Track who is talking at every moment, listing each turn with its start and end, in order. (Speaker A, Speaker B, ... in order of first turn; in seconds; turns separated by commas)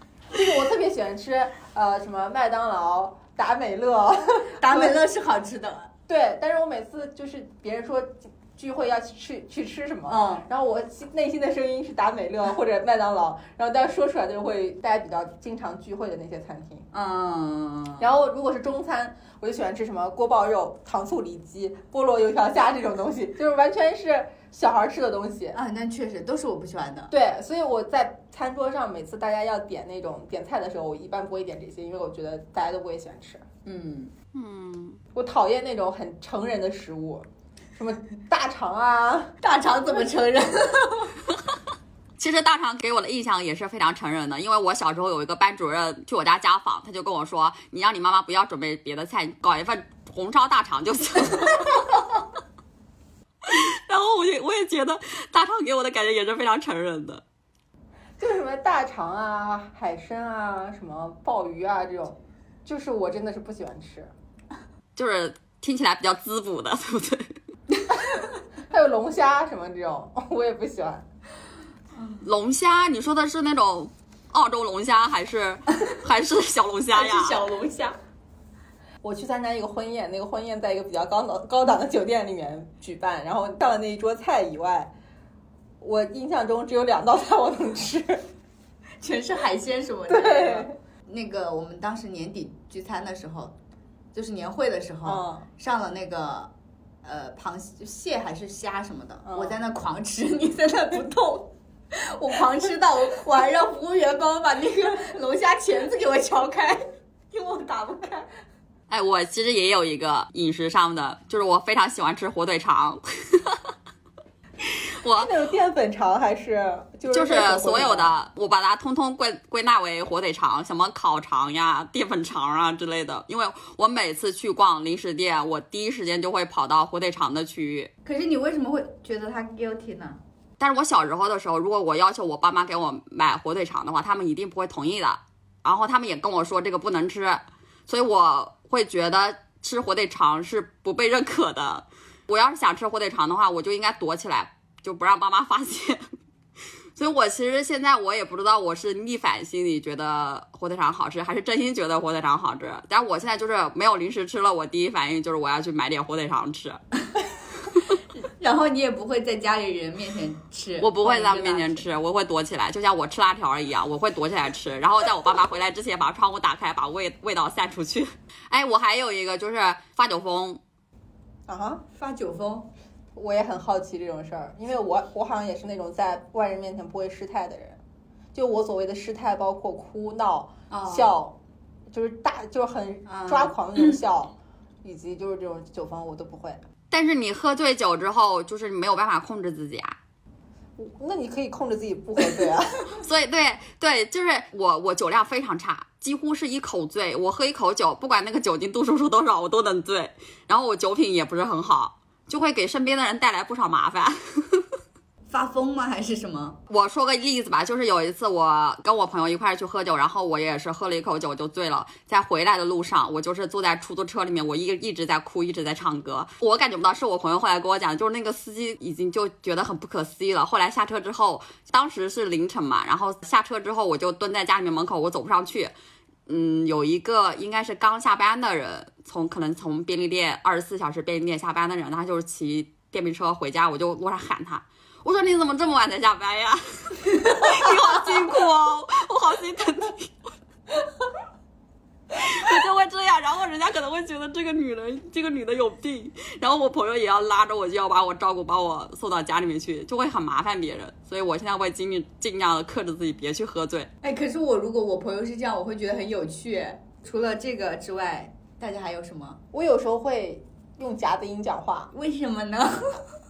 Speaker A: 0.3-5.0, Speaker B: 4.5-5.9, Speaker A: 6.1-16.9, Speaker B: 10.1-10.4, Speaker B: 16.9-18.1, Speaker A: 18.0-25.6, Speaker B: 25.5-27.1, Speaker A: 27.1-33.4, Speaker B: 33.6-34.1, Speaker C: 34.3-35.0, Speaker A: 35.1-39.3, Speaker B: 39.4-41.1, Speaker C: 42.2-52.0, Speaker C: 53.5-57.2, Speaker A: 58.2-64.1, Speaker C: 65.0-67.3, Speaker A: 68.7-71.0, Speaker C: 72.2-77.4, Speaker B: 76.9-78.0, Speaker A: 79.0-84.9, Speaker A: 85.8-88.2, Speaker B: 89.0-93.5, Speaker A: 90.1-90.7, Speaker B: 94.1-96.5, Speaker A: 95.0-95.5, Speaker B: 97.0-108.3, Speaker A: 99.2-99.6, Speaker C: 108.9-113.6, Speaker C: 115.0-115.3, Speaker A: 115.2-118.1, Speaker C: 117.1-127.9, Speaker B: 128.0-130.2, Speaker C: 130.6-146.0, Speaker C: 146.9-156.8, Speaker B: 158.4-161.9, Speaker C: 160.8-170.6, Speaker A: 171.5-171.8, Speaker B: 171.9-172.7, Speaker A: 173.2-177.8, Speaker A: 178.3-181.4, Speaker B: 180.7-181.1, Speaker A: 181.9-186.6, Speaker B: 183.1-184.0, Speaker C: 186.9-189.9, Speaker A: 190.8-192.9, Speaker C: 193.0-204.7, Speaker B: 205.3-206.6, Speaker C: 206.7-225.7, Speaker C: 226.3-240.1, Speaker C: 242.1-253.9, Speaker B: 254.0-259.4, Speaker A: 259.5-261.9, Speaker B: 261.9-263.0